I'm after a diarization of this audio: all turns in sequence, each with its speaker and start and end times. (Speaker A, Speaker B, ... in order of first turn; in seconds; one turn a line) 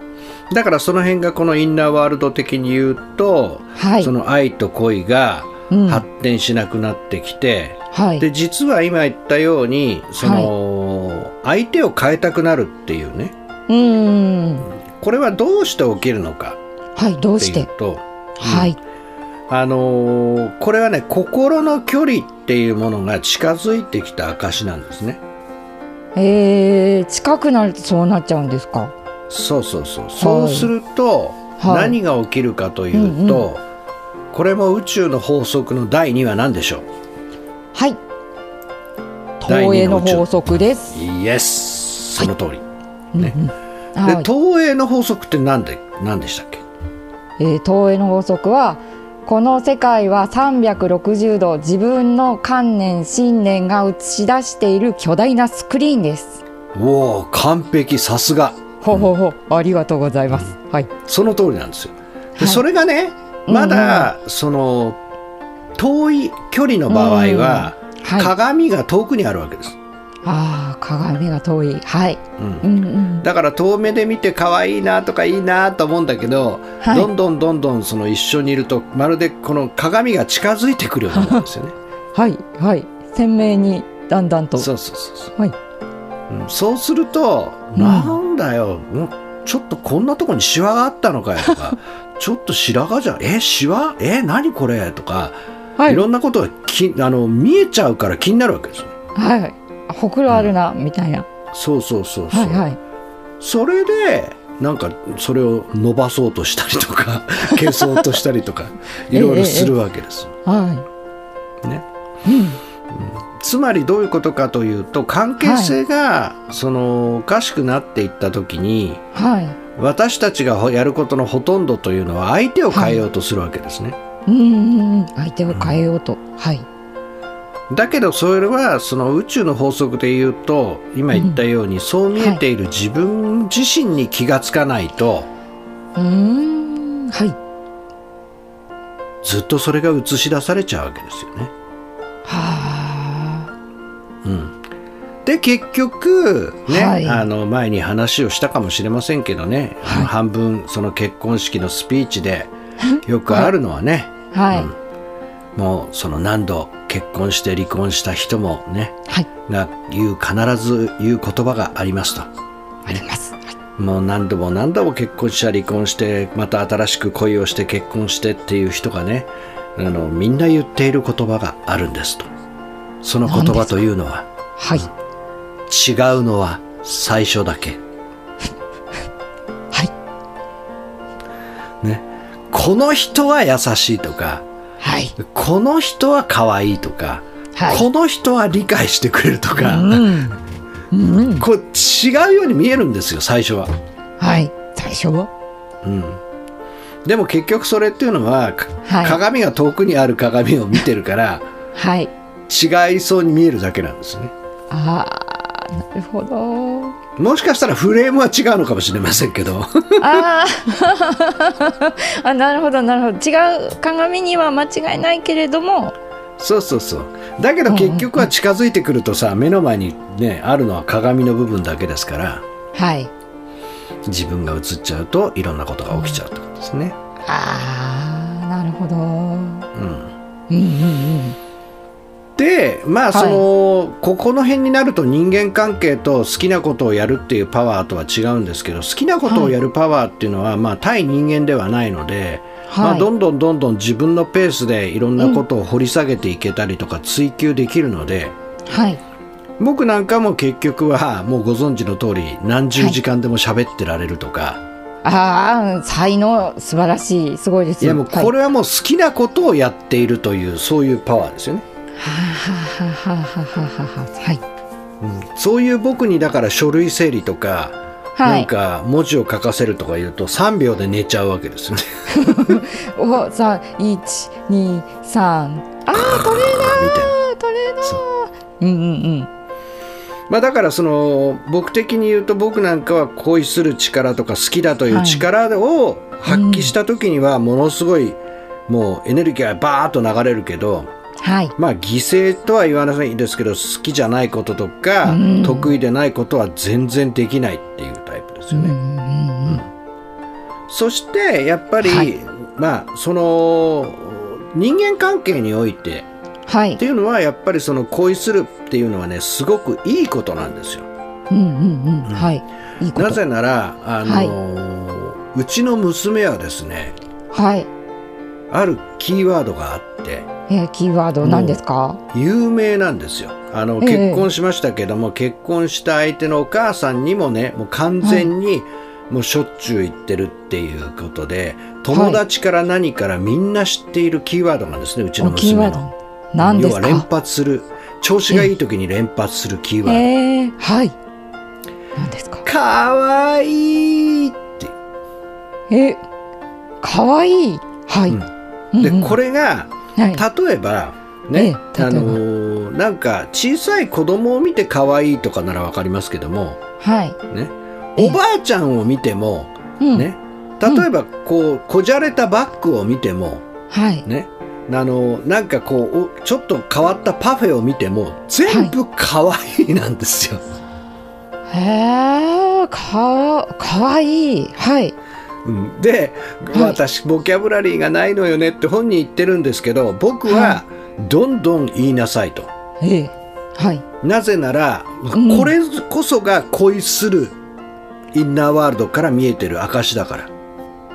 Speaker A: 0.5-13.3
Speaker B: 3.8-4.1
Speaker B: 5.7-6.0
Speaker B: 7.9-8.3
Speaker B: 10.2-10.5
Speaker B: 13.7-14.7
Speaker A: 14.7-16.6
Speaker B: 17.0-17.7
Speaker A: 17.4-18.8
Speaker B: 18.4-18.8
Speaker A: 19.5-25.2
Speaker B: 26.1-28.9
Speaker A: 29.3-33.6
Speaker B: 30.2-30.7
Speaker B: 31.6-32.0
Speaker B: 32.9-33.5
Speaker A: 34.3-36.9
Speaker B: 37.7-38.0
Speaker B: 39.4-41.0
Speaker A: 39.5-40.3
Speaker A: 40.9-42.6
Speaker B: 43.1-44.3
Speaker A: 44.0-46.6
Speaker B: 47.4-56.4
Speaker A: 56.7-59.1
Speaker B: 58.8-60.9
Speaker A: 61.1-65.0
Speaker B: 62.4-62.6
Speaker B: 63.5-64.1
Speaker A: 65.8-69.8
Speaker B: 66.9-68.3
Speaker B: 70.2-73.3
Speaker A: 72.4-72.7
Speaker A: 73.2-81.8
Speaker B: 76.8-77.1
Speaker B: 81.1-81.5
Speaker B: 82.1-84.7
Speaker A: 84.6-85.3
Speaker A: 86.3-99.0
Speaker B: 87.8-88.2
Speaker B: 95.8-96.0
Speaker B: 99.2-101.3
Speaker A: 100.3-100.5
Speaker A: 101.5-102.7
Speaker B: 102.3-102.8
Speaker A: 103.4-110.3
Speaker B: 109.1-109.8
Speaker B: 110.5-110.8
Speaker B: 112.2-112.6
Speaker A: 112.9-119.0
Speaker B: 115.4-115.8
Speaker B: 119.1-119.6
Speaker A: 119.8-124.0
Speaker B: 122.7-123.0
Speaker B: 124.3-126.7
Speaker A: 125.5-125.8
Speaker A: 127.7-135.3
Speaker B: 131.1-131.4
Speaker B: 136.0-137.4
Speaker A: 139.2-141.5
Speaker B: 142.2-143.5
Speaker A: 144.2-144.6
Speaker A: 145.2-154.8
Speaker B: 146.7-147.3
Speaker B: 152.8-153.5
Speaker B: 154.3-154.7
Speaker A: 155.6-162.3
Speaker B: 162.8-163.5
Speaker A: 163.8-172.3
Speaker A: 173.0-174.9
Speaker B: 173.3-173.8
Speaker B: 174.6-174.9
Speaker A: 175.7-177.8
Speaker A: 181.8-184.4
Speaker B: 184.8-185.2
Speaker A: 185.2-190.2
Speaker B: 187.6-187.8
Speaker B: 189.6-190.4
Speaker B: 190.9-191.5
Speaker A: 191.4-193.7
Speaker B: 194.2-195.3
Speaker A: 195.8-196.2
Speaker A: 197.1-201.5
Speaker B: 198.9-199.2
Speaker B: 201.8-202.1
Speaker A: 202.5-204.3
Speaker B: 204.7-207.0
Speaker A: 207.2-210.3
Speaker B: 210.0-215.9
Speaker A: 216.4-222.4
Speaker B: 217.7-218.3
Speaker B: 222.7-223.1
Speaker A: 224.1-226.9
Speaker B: 225.9-226.2
Speaker B: 227.2-229.7
Speaker A: 229.8-230.1
Speaker B: 230.5-231.4
Speaker A: 232.4-248.4
Speaker B: 233.1-233.4
Speaker B: 239.3-239.6
Speaker B: 242.7-243.1
Speaker B: 245.2-245.4
Speaker B: 248.7-249.0
Speaker A: 249.6-254.6
Speaker B: 255.0-258.3
Speaker A: 257.8-261.6
Speaker B: 262.0-264.4
Speaker A: 265.0-272.6
Speaker B: 268.2-268.5
Speaker B: 272.1-279.3
Speaker A: 275.9-277.2
Speaker A: 280.3-290.9
Speaker B: 284.9-285.3
Speaker B: 286.3-286.7
Speaker B: 291.2-291.5
Speaker A: 291.6-298.8
Speaker B: 295.1-295.7
Speaker B: 298.5-299.6
Speaker A: 299.4-299.7
Speaker A: 300.7-306.1
Speaker B: 301.8-302.1
Speaker B: 306.5-306.8
Speaker A: 306.8-310.9
Speaker B: 311.3-313.2
Speaker A: 312.9-317.0
Speaker B: 314.0-314.4
Speaker B: 317.3-317.7
Speaker A: 318.5-320.3
Speaker B: 320.5-322.0
Speaker A: 321.2-321.6
Speaker A: 322.1-335.9
Speaker B: 323.8-324.3
Speaker B: 328.0-328.3
Speaker B: 331.9-332.2
Speaker B: 335.2-337.1
Speaker A: 336.4-340.1
Speaker B: 339.8-340.9
Speaker B: 342.0-342.4
Speaker A: 342.4-344.7
Speaker B: 345.7-346.0
Speaker B: 346.8-348.2
Speaker A: 348.1-356.6
Speaker B: 348.7-349.2
Speaker B: 350.0-350.2
Speaker B: 351.3-352.2
Speaker B: 356.8-357.2
Speaker A: 357.3-363.4
Speaker B: 359.8-360.1
Speaker B: 363.7-364.1
Speaker A: 364.1-370.4
Speaker B: 368.5-368.7
Speaker B: 371.5-374.9
Speaker A: 375.4-382.5
Speaker B: 376.5-376.8
Speaker B: 380.3-380.6
Speaker B: 382.8-383.9
Speaker A: 384.0-387.4
Speaker B: 385.1-385.5
Speaker A: 388.1-390.3